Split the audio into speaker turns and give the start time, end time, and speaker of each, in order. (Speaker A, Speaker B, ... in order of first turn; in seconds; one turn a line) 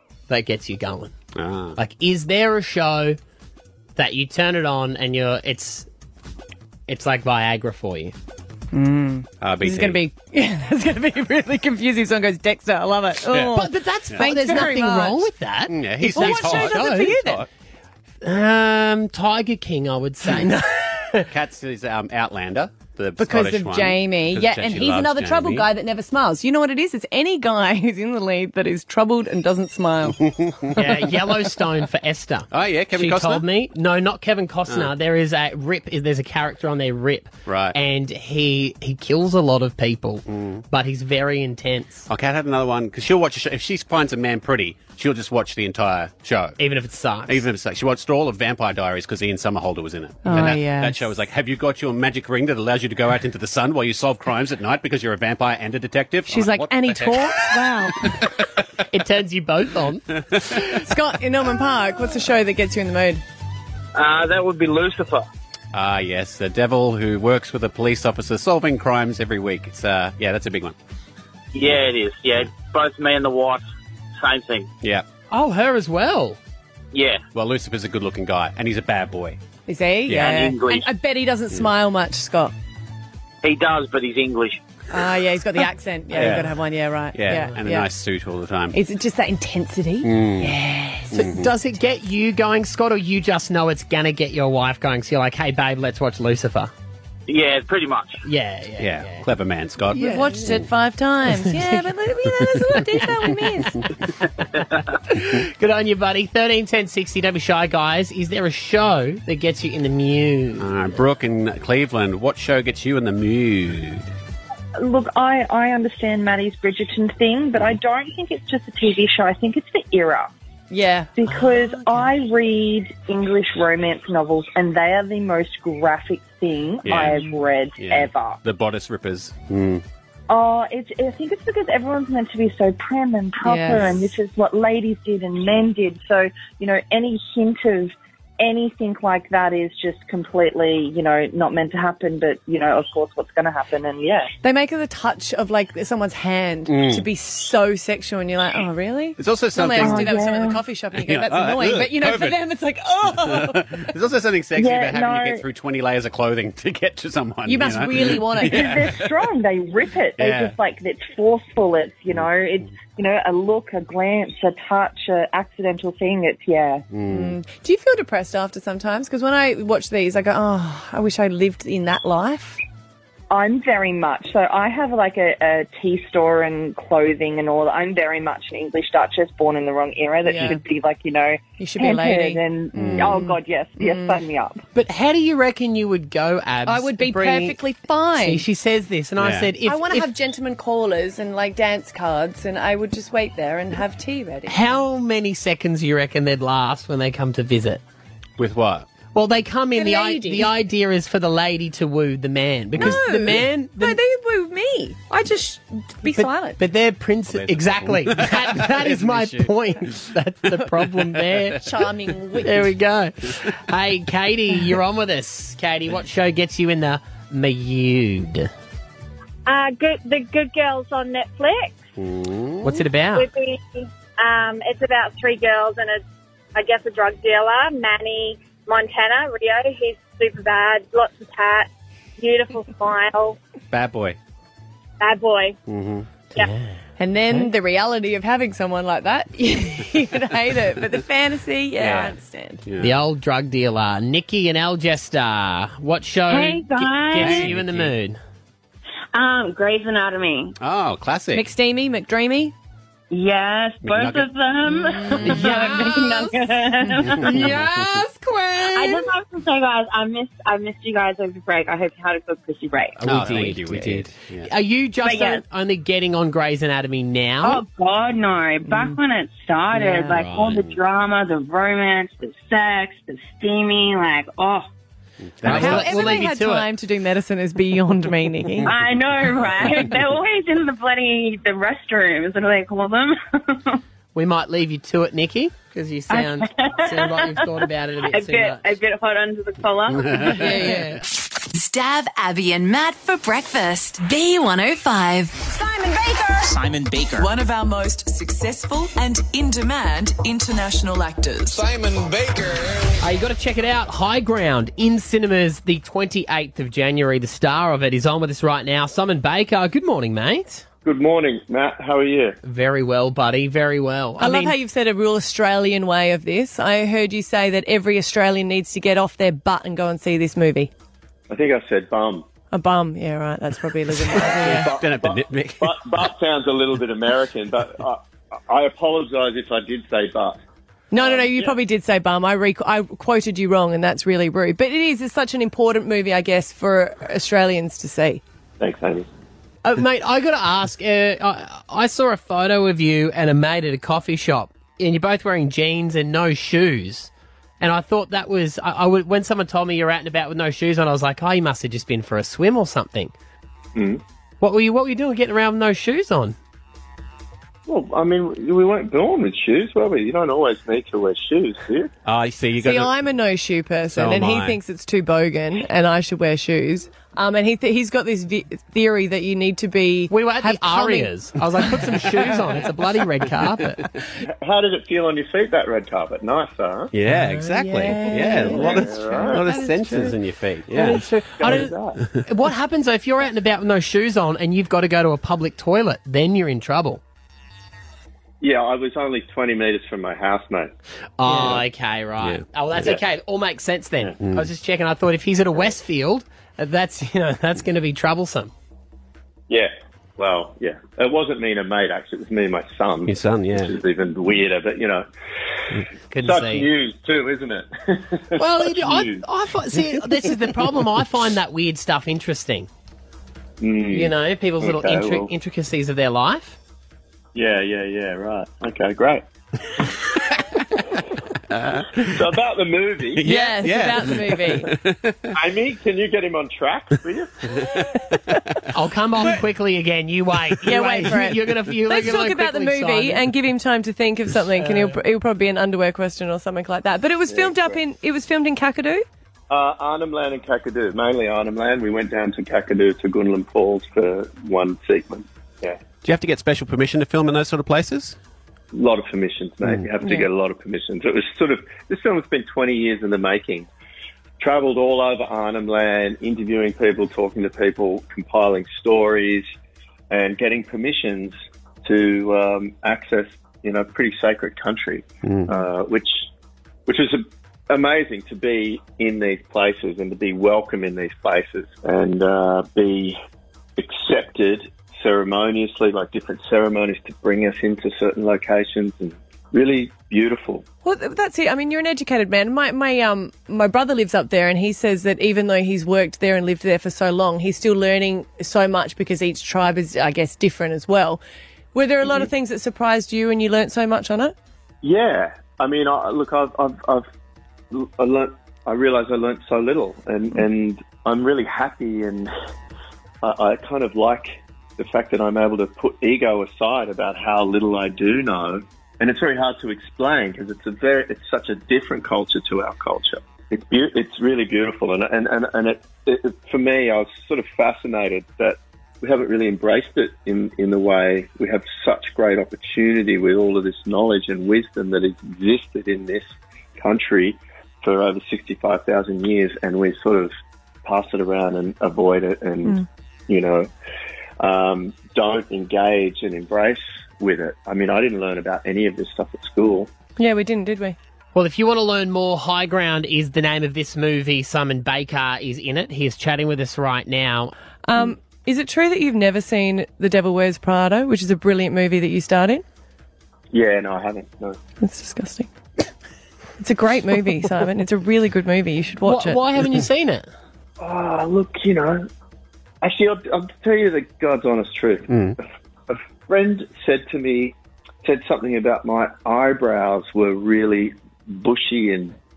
Speaker A: 0.3-1.1
Speaker B: 1.3-1.8
Speaker A: 1.8-3.2
Speaker A: 4.0-5.9
Speaker A: 6.9-8.1
Speaker C: 8.7-15.3
Speaker B: 9.4-10.0
Speaker B: 13.3-13.5
Speaker A: 13.5-17.4
Speaker B: 15.7-17.5
Speaker C: 16.1-17.4
Speaker A: 18.2-21.3
Speaker B: 21.3-25.7
Speaker C: 23.2-30.2
Speaker B: 30.1-30.9
Speaker A: 30.7-42.1
Speaker B: 32.5-33.4
Speaker B: 37.5-37.8
Speaker B: 40.3-40.6
Speaker B: 42.1-46.6
Speaker A: 46.6-47.4
Speaker B: 47.3-58.6
Speaker C: 50.2-51.1
Speaker C: 56.3-58.2
Speaker A: 58.9-60.1
Speaker B: 60.3-60.7
Speaker C: 60.5-63.2
Speaker D: 63.9-65.2
Speaker B: 65.7-70.8
Speaker D: 71.5-73.7
Speaker D: 74.2-74.7
Speaker A: 75.3-76.4
Speaker D: 76.9-77.2
Speaker B: 77.3-79.4
Speaker C: 79.7-82.5
Speaker B: 80.0-80.5
Speaker D: 80.2-80.8
Speaker D: 83.4-84.6
Speaker C: 84.9-87.9
Speaker B: 86.1-86.6
Speaker B: 87.1-88.8
Speaker C: 88.7-91.2
Speaker B: 90.0-90.6
Speaker B: 91.1-91.5
Speaker A: 91.1-96.7
Speaker D: 97.3-98.2
Speaker A: 98.2-99.3
Speaker B: 98.8-100.7
Speaker A: 99.9-100.4
Speaker C: 99.9-103.8
Speaker A: 103.0-103.4
Speaker A: 104.6-110.9
Speaker B: 110.6-114.1
Speaker E: 114.8-120.3
Speaker C: 120.7-121.1
Speaker E: 121.2-128.4
Speaker B: 126.8-127.2
Speaker C: 127.0-127.4
Speaker B: 127.8-129.8
Speaker E: 130.3-144.3
Speaker C: 133.4-134.1
Speaker C: 144.4-153.8
Speaker B: 146.7-147.1
Speaker B: 149.2-150.2
Speaker E: 149.8-150.6
Speaker B: 150.9-152.4
Speaker B: 153.0-159.2
Speaker E: 154.6-155.4
Speaker C: 157.4-158.9
Speaker E: 158.4-166.8
Speaker B: 160.2-160.6
Speaker B: 166.9-167.4
Speaker C: 167.1-172.6
Speaker E: 173.3-184.6
Speaker C: 180.2-180.6
Speaker C: 181.6-184.2
Speaker B: 182.7-183.2
Speaker A: 184.7-187.6
Speaker C: 186.7-188.4
Speaker A: 188.2-190.1
Speaker B: 189.2-189.5
Speaker C: 189.6-194.8
Speaker A: 194.5-197.8
Speaker B: 198.4-198.9
Speaker A: 199.1-204.0
Speaker C: 199.8-200.5
Speaker C: 202.8-206.6
Speaker A: 206.1-211.7
Speaker B: 207.3-209.5
Speaker C: 211.5-212.7
Speaker A: 212.4-218.5
Speaker F: 219.4-221.8
Speaker B: 222.0-222.8
Speaker A: 222.6-223.3
Speaker F: 223.1-226.0
Speaker F: 226.5-233.4
Speaker B: 233.7-234.2
Speaker F: 235.0-235.6
Speaker B: 235.7-236.1
Speaker A: 236.3-236.8
Speaker C: 237.0-242.6
Speaker B: 241.8-243.0
Speaker A: 242.8-248.2
Speaker G: 246.3-247.4
Speaker B: 247.1-247.9
Speaker G: 249.1-250.6
Speaker B: 250.6-251.4
Speaker C: 251.3-252.5
Speaker G: 253.1-257.6
Speaker B: 253.8-254.3
Speaker C: 254.7-256.1
Speaker B: 255.2-255.6
Speaker A: 255.5-255.7
Speaker C: 256.9-259.1
Speaker B: 257.0-257.9
Speaker G: 258.7-263.0
Speaker A: 263.0-267.6
Speaker B: 263.0-264.5
Speaker G: 265.0-265.4
Speaker G: 267.4-274.7
Speaker C: 268.6-269.0
Speaker A: 269.9-270.6
Speaker B: 270.3-270.7
Speaker B: 275.3-276.3
Speaker A: 275.4-276.7
Speaker C: 275.4-278.7
Speaker G: 278.6-283.8
Speaker A: 284.1-288.6
Speaker G: 286.1-290.6
Speaker B: 290.0-290.4
Speaker A: 290.2-291.0
Speaker C: 290.5-290.8
Speaker H: 291.5-295.4
Speaker I: 295.4-301.7
Speaker A: 303.0-310.6
Speaker J: 310.8-312.4
Speaker A: 312.4-314.5
Speaker C: 314.2-320.7
Speaker J: 321.3-322.2
Speaker C: 322.5-324.7
Speaker J: 324.2-330.4
Speaker B: 324.2-325.8
Speaker C: 330.9-338.2
Speaker J: 330.9-331.6
Speaker J: 338.6-339.1
Speaker A: 339.6-353.1
Speaker J: 353.7-354.0
Speaker A: 354.4-356.4
Speaker J: 357.7-361.9
Speaker B: 362.0-362.9
Speaker C: 362.6-372.1
Speaker B: 363.9-364.6
Speaker A: 370.1-373.8
Speaker J: 374.2-376.9
Speaker B: 376.9-381.0
Speaker A: 377.1-380.1
Speaker C: 378.1-378.5
Speaker J: 378.5-379.4
Speaker A: 380.7-381.7
Speaker J: 381.4-382.0
Speaker A: 382.2-387.0
Speaker J: 388.4-390.7
Speaker A: 391.2-398.5
Speaker B: 392.2-392.9
Speaker B: 394.2-394.5
Speaker J: 399.5-405.1
Speaker B: 403.1-403.8
Speaker A: 406.1-406.7
Speaker J: 406.2-409.2
Speaker A: 408.4-412.7
Speaker J: 413.6-415.3
Speaker A: 413.9-416.6
Speaker J: 417.3-419.2
Speaker B: 421.5-422.2
Speaker J: 422.0-423.3
Speaker B: 423.1-425.3
Speaker C: 423.2-424.7
Speaker J: 425.3-427.3
Speaker B: 427.6-428.5
Speaker A: 428.7-433.3
Speaker C: 430.6-439.0
Speaker A: 434.6-435.0
Speaker J: 437.3-437.8
Speaker J: 439.5-445.8
Speaker B: 446.0-448.2
Speaker J: 448.7-453.7
Speaker J: 454.4-459.5
Speaker J: 460.1-466.2
Speaker B: 465.2-465.5
Speaker J: 466.9-473.2
Speaker J: 473.8-480.6
Speaker C: 480.8-491.2
Speaker C: 491.7-494.3
Speaker J: 494.8-497.1
Speaker J: 497.7-502.3
Speaker J: 503.2-530.3
Speaker J: 530.8-533.7
Speaker J: 534.4-539.9
Speaker C: 540.2-541.0
Speaker A: 541.3-547.5
Speaker C: 547.9-552.6
Speaker J: 553.5-554.6
Speaker C: 554.8-555.5
Speaker C: 556.6-559.4
Speaker A: 559.0-560.3
Speaker J: 560.8-562.1
Speaker J: 562.8-565.3
Speaker B: 565.1-565.4
Speaker J: 565.9-572.1